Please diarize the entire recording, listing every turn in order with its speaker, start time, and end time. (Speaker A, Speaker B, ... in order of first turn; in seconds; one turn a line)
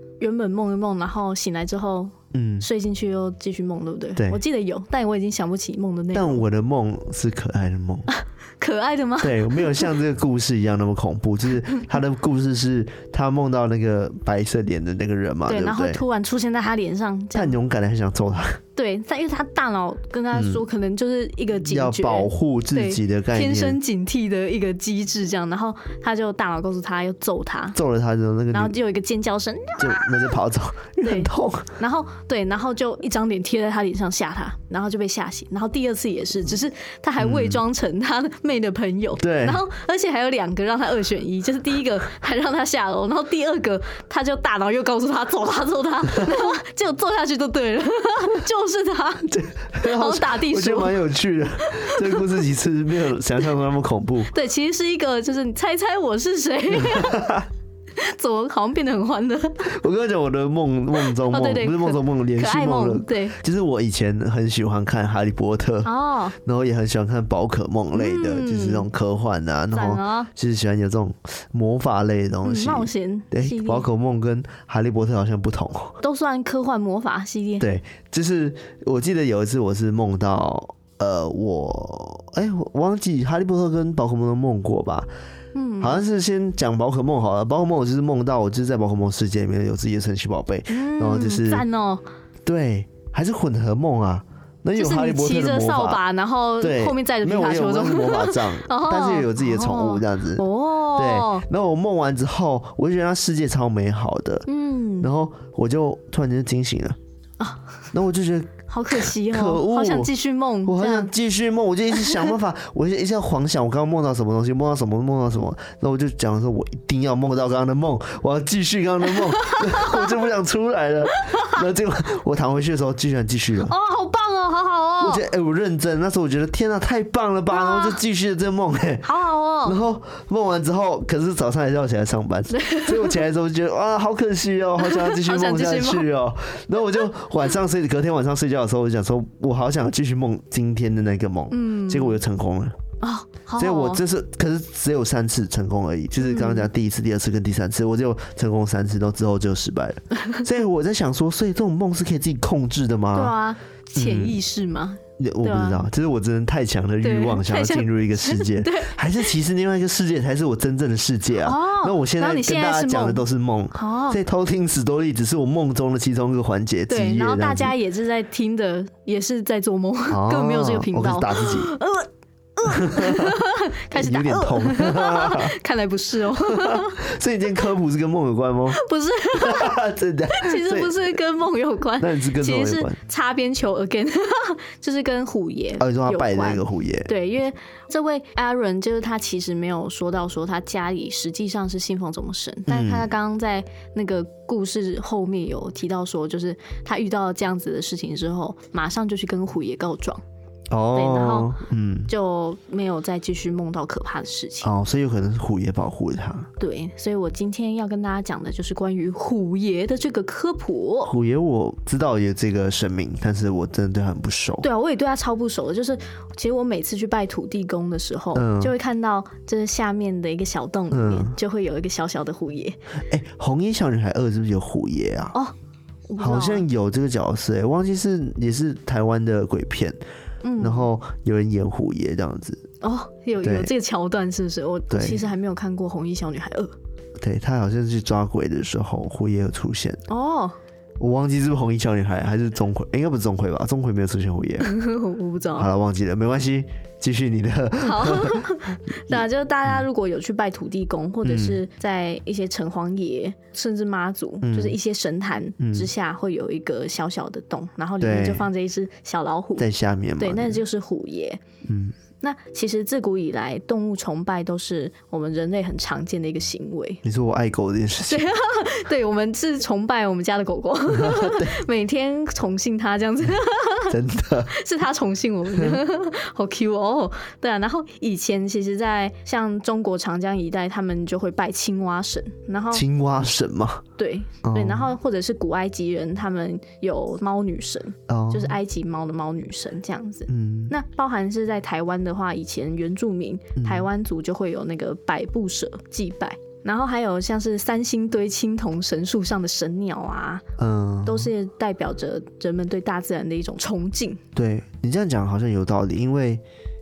Speaker A: 0.2-6.4
Speaker B: 2.3-2.7
Speaker B: 4.2-4.4
Speaker B: 6.1-8.1
Speaker A: 8.6-9.9
Speaker B: 9.2-16.0
Speaker A: 15.5-17.6
Speaker B: 17.3-18.6
Speaker A: 18.8-27.8
Speaker B: 20.3-20.6
Speaker B: 21.7-23.8
Speaker B: 27.7-28.8
Speaker A: 28.5-30.3
Speaker B: 29.8-31.7
Speaker A: 31.0-51.0
Speaker B: 37.2-37.6
Speaker B: 39.2-39.6
Speaker B: 49.3-54.3
Speaker A: 51.6-52.2
Speaker A: 54.3-57.3
Speaker B: 56.7-57.5
Speaker A: 58.0-59.8
Speaker B: 59.7-76.0
Speaker A: 61.0-63.4
Speaker A: 65.8-66.4
Speaker A: 67.9-68.9
Speaker A: 69.7-70.3
Speaker A: 72.4-73.9
Speaker A: 76.0-77.7
Speaker B: 77.6-85.1
Speaker A: 85.5-86.0
Speaker B: 85.8-91.7
Speaker A: 90.7-92.0
Speaker B: 92.5-96.0
Speaker A: 94.8-101.5
Speaker B: 96.6-104.5
Speaker A: 104.5-105.1
Speaker B: 105.0-107.0
Speaker A: 107.4-107.7
Speaker B: 107.9-110.1
Speaker A: 108.7-111.1
Speaker B: 110.7-123.7
Speaker A: 112.0-112.3
Speaker A: 119.3-120.1
Speaker A: 121.3-121.6
Speaker A: 123.6-125.2
Speaker B: 125.0-129.1
Speaker A: 127.5-128.0
Speaker A: 129.0-129.8
Speaker B: 129.6-142.8
Speaker A: 132.5-133.2
Speaker A: 134.8-136.1
Speaker A: 141.5-142.2
Speaker A: 143.0-144.0
Speaker B: 143.6-153.3
Speaker A: 146.2-146.7
Speaker A: 153.1-155.9
Speaker B: 154.0-154.4
Speaker B: 155.2-167.7
Speaker A: 157.0-159.3
Speaker A: 161.4-164.2
Speaker A: 166.9-177.0
Speaker B: 170.1-171.7
Speaker B: 172.7-175.6
Speaker B: 176.4-178.8
Speaker A: 178.7-179.8
Speaker B: 179.3-181.0
Speaker A: 180.3-200.2
Speaker B: 182.0-183.0
Speaker B: 185.8-187.1
Speaker B: 192.7-193.1
Speaker B: 200.7-202.1
Speaker A: 200.9-204.7
Speaker B: 204.6-206.5
Speaker A: 206.6-211.1
Speaker B: 211.1-214.7
Speaker A: 214.6-222.8
Speaker B: 218.3-218.7
Speaker B: 220.9-221.3
Speaker B: 223.1-225.3
Speaker A: 226.1-226.7
Speaker B: 226.2-230.0
Speaker A: 230.4-230.9
Speaker B: 230.6-232.7
Speaker A: 232.8-236.7
Speaker B: 233.4-233.7
Speaker B: 234.9-235.2
Speaker B: 237.2-240.0
Speaker A: 240.1-240.6
Speaker B: 241.0-244.7
Speaker A: 244.6-245.7
Speaker B: 245.6-248.4
Speaker A: 247.8-259.7
Speaker B: 251.2-251.6
Speaker B: 254.4-254.8
Speaker B: 255.6-255.9
Speaker B: 258.0-258.5
Speaker B: 259.6-260.6
Speaker A: 260.2-261.4
Speaker B: 261.6-262.0
Speaker A: 262.2-267.0
Speaker B: 267.0-268.3
Speaker A: 268.1-274.0
Speaker B: 270.9-271.6
Speaker B: 273.9-274.5
Speaker A: 274.5-282.9
Speaker B: 282.7-283.8
Speaker A: 284.0-300.5
Speaker B: 284.4-284.9
Speaker B: 288.1-288.6
Speaker B: 290.3-290.7
Speaker B: 293.6-293.9
Speaker B: 300.6-301.3
Speaker A: 301.1-304.2
Speaker B: 304.4-306.4